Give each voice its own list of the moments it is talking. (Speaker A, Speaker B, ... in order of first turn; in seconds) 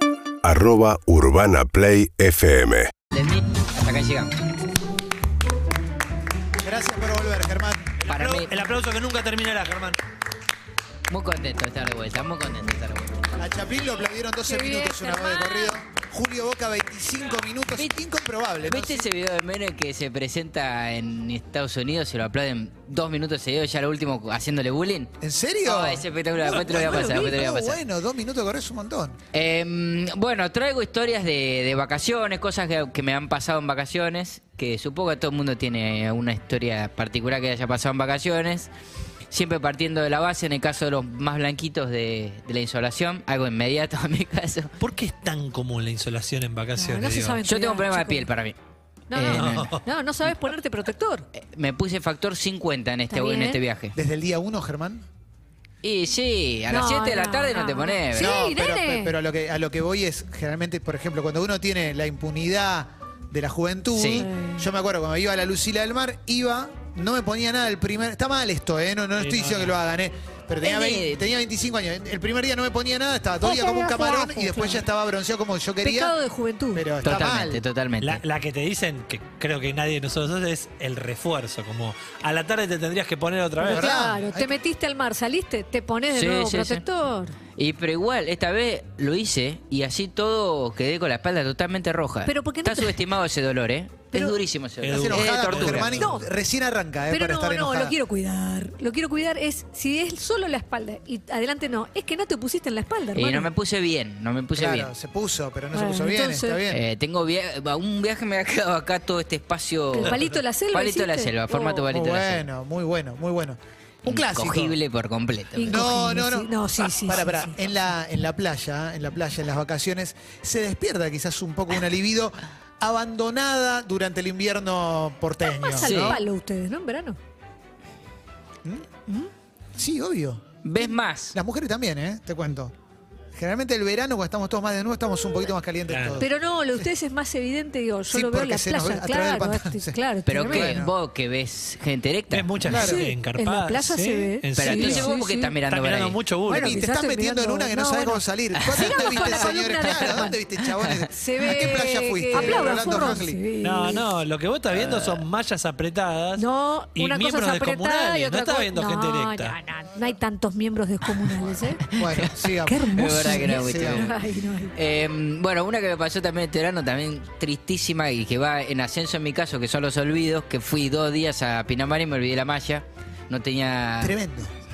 Speaker A: 0.4-2.9
Speaker B: 3.1-4.3, 8.1-8.5, 11.1-13.2, 18.7-25.1, 25.6-27.8, 29.3-38.7, 39.3-44.7, 47.5-48.6, 49.1-49.7, 51.3-54.0, 55.8-58.4, 64.0-64.3, 70.6-71.2, 77.0-78.2, 86.1-86.8, 87.6-96.0, 103.1-104.9, 106.7-110.2, 110.7-112.5, 114.1-115.8, 125.8-126.2, 130.6-131.4, 140.3-142.5, 144.6-146.2, 148.6-149.5, 150.6-151.0, 152.4-152.8, 161.9-164.2, 164.8-174.2
Speaker C: 6.6-7.9, 13.4-19.1, 25.2-29.2, 54.0-55.1, 58.1-76.2, 76.7-77.6, 83.7-84.5, 94.9-98.0, 104.5-106.8, 111.9-114.8, 115.6-126.2, 128.6-129.0, 129.8-132.7, 133.3-136.9, 138.1-140.9, 142.7-143.0, 146.5-153.4, 154.8-155.0, 161.9-162.9, 163.4-164.1, 174.0-174.5
Speaker D: 8.0-10.0, 44.8-47.4, 49.3-49.8, 69.2-69.7, 78.0-84.0, 94.8-96.1, 110.0-110.4, 135.9-136.2, 142.3-145.1, 145.7-146.8, 153.6-159.6
Speaker E: 14.4-15.8, 46.8-48.3, 49.1-51.3, 53.1-53.6, 56.7-59.2, 64.2-64.7, 73.4-74.8, 75.8-76.9, 83.6-87.3, 92.2-93.0, 96.0-96.3, 97.1-103.5, 105.7-106.7, 109.9-111.9, 115.5-117.6, 125.6-127.2, 136.2-140.8, 142.7-145.6, 146.5-150.4, 151.1-154.1, 156.4-161.8, 162.7-164.7